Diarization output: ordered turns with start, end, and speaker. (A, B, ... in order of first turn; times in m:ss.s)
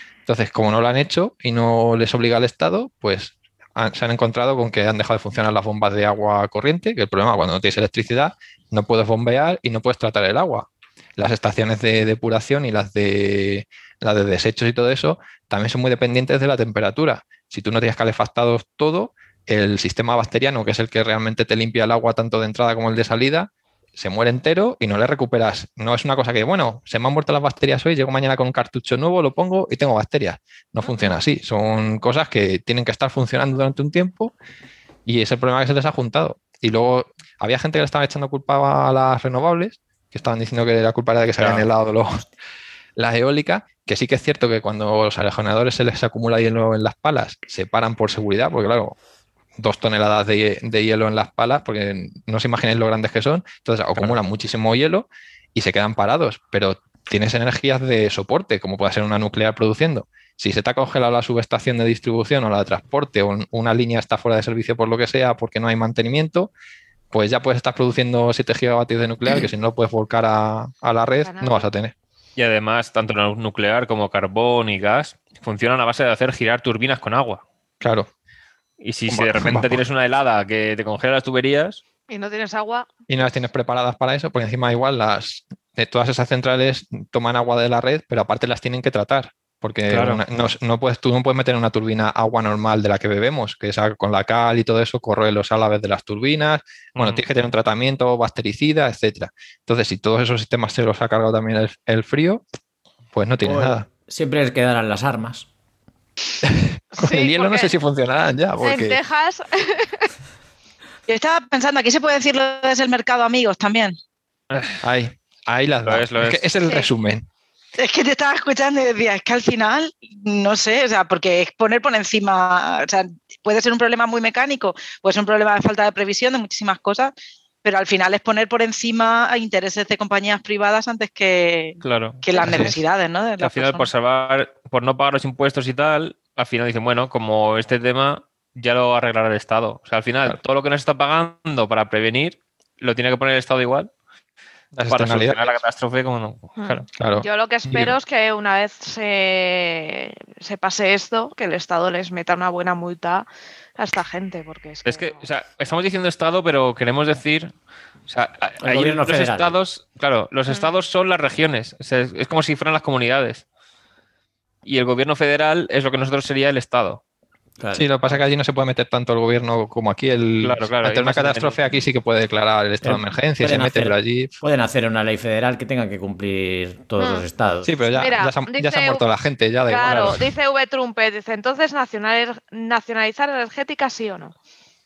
0:00.2-0:34.3 A
0:30.8-0:31.1 B
0:35.0-0:42.2 A
0:41.4-0:41.7 C
0:43.0-0:49.0 A
0:49.6-1:06.5 A
1:07.1-1:11.9 A
1:11.2-1:11.7 B
1:12.4-1:17.4 C
1:17.8-1:18.1 A
1:18.8-1:21.8 C
1:19.1-1:19.8 A
1:22.1-1:22.9 B
1:23.1-1:42.4 A
1:29.9-1:30.2 C
1:37.0-1:37.2 C
1:43.1-1:43.8 A
1:43.4-1:45.4 D
1:46.4-1:49.0 A
1:46.9-1:47.7 B
1:48.6-1:50.1 B
1:51.1-1:54.0 E
1:54.5-1:54.8 C
1:54.8-1:57.2 A
1:55.8-1:56.4 C
1:56.6-1:56.9 B
1:57.8-2:07.1 E
2:07.6-2:13.8 E
2:11.8-2:12.7 C
2:12.4-2:12.6 B
2:12.4-2:12.7 A
2:13.4-2:23.9 C
2:24.7-2:25.5 A
2:24.9-2:26.8 C
2:26.6-2:33.2 B
2:27.0-2:27.9 A
2:33.8-2:35.2 B
2:34.8-2:37.5 C
2:38.1-2:43.4 C
2:38.6-2:39.6 D
2:44.6-2:47.0 C
2:47.6-2:48.1 D
2:47.7-2:54.3 A
2:50.4-2:51.7 C
2:52.8-2:57.7 D
2:57.0-2:57.2 B
2:57.6-3:00.2 A
2:57.9-2:59.0 B
2:59.7-3:04.3 B
2:59.9-3:00.2 C